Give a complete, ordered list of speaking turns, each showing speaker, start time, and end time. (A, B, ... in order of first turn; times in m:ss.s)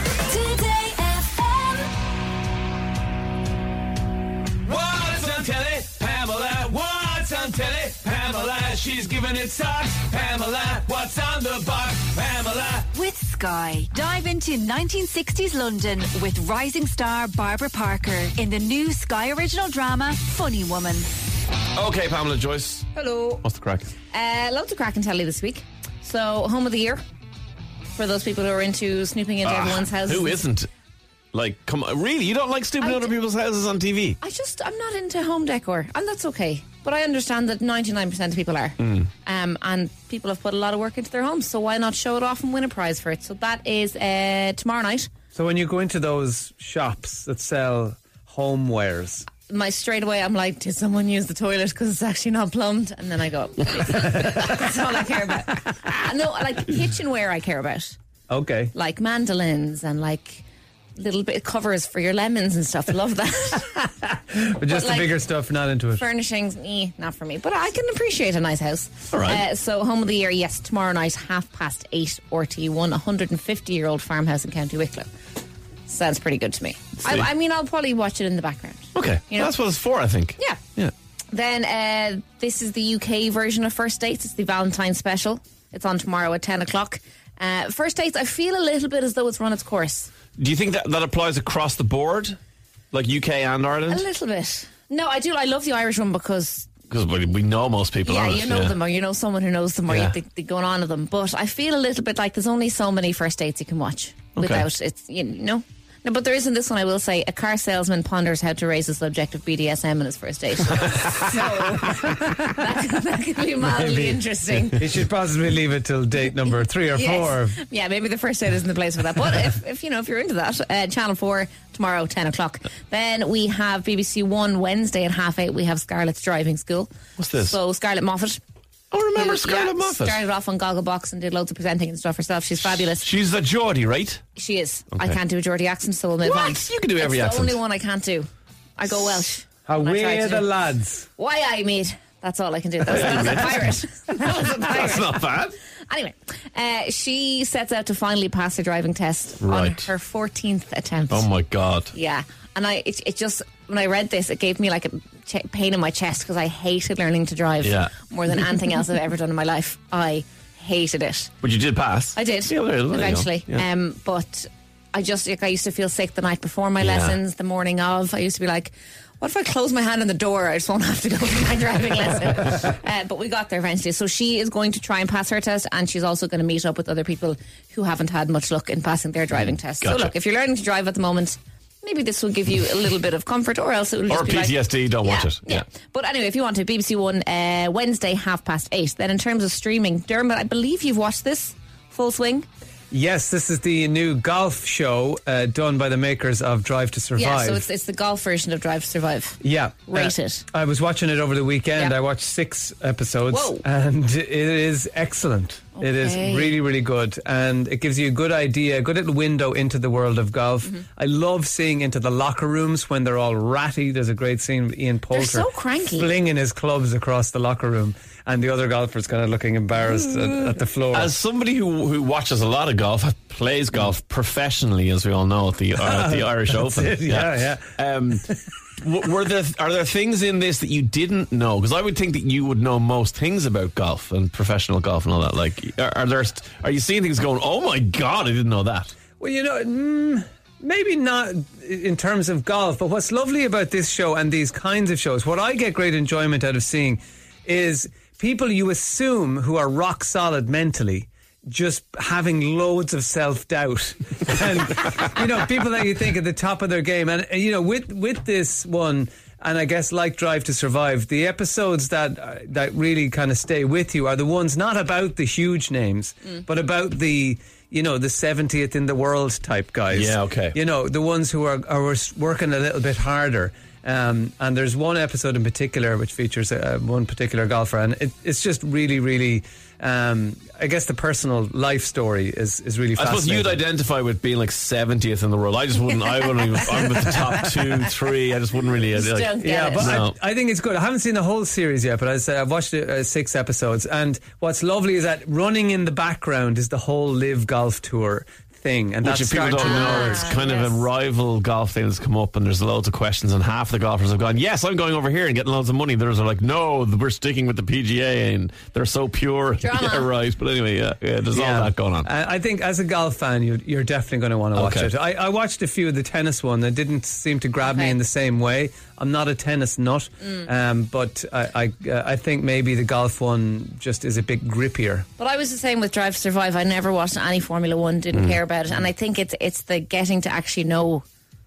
0:00.3-0:01.9 A
0:04.7-0:12.8 B
0:12.9-0:21.1 A
0:21.7-0:23.9 B
0:23.0-0:23.4 C
0:24.1-0:27.0 C
0:28.0-0:30.4 C
0:29.4-0:30.7 B
0:31.3-0:34.2 B
0:32.8-0:33.1 C
0:34.2-0:45.1 C
0:38.8-0:39.1 B
0:45.3-0:49.3 D
0:49.5-0:58.0 C
0:58.3-0:58.7 D
0:58.7-1:00.4 C
1:01.0-1:03.7 C
1:04.0-1:06.0 D
1:04.7-1:05.2 C
1:06.0-1:15.1 C
1:09.1-1:09.4 B
1:15.9-1:19.5 C
1:17.0-1:17.3 B
1:18.9-1:20.9 B
1:21.3-1:30.1 C
1:30.4-1:32.4 B
1:32.9-1:34.0 B
1:33.9-1:36.7 C
1:36.9-1:38.8 B
1:38.0-1:54.8 C
1:39.9-1:40.1 B
1:44.4-1:44.6 B
1:53.6-1:54.2 D
1:54.8-1:57.6 D
1:56.9-2:08.4 C
2:07.2-2:07.6 B
2:08.9-2:10.2 B
2:09.1-2:13.1 C
2:12.6-2:14.2 B
2:14.4-2:25.3 C
2:14.9-2:15.2 B
2:16.2-2:17.6 B
2:19.6-2:21.1 D
2:22.8-2:25.6 B
2:25.9-2:31.3 C
2:29.4-2:29.9 B
2:31.1-2:31.9 B
2:31.9-2:41.3 C
2:37.6-2:37.9 B
2:41.4-2:43.6 B
2:42.1-3:12.5 C
2:46.8-2:47.2 B
2:59.8-3:00.1 B
3:04.1-3:05.6 B
3:12.9-3:17.6 D
3:17.2-3:20.4 C
3:19.4-3:41.1 D
3:23.3-3:23.6 C
3:25.8-3:26.5 C
3:35.1-3:36.1 C
3:40.9-3:48.2 B
3:45.8-3:48.4 D
3:48.8-3:58.9 B
3:59.2-4:43.6 D
4:29.9-4:30.6 B
4:43.0-4:50.1 B
4:46.9-4:47.3 D
4:48.9-4:50.0 C
4:49.4-5:00.4 D
4:59.0-5:12.1 B
4:59.6-5:00.8 C
5:09.6-5:10.1 C
5:11.3-5:25.0 D
5:14.6-5:14.9 B
5:17.6-5:18.0 C
5:25.2-5:31.0 C
5:28.1-5:28.4 B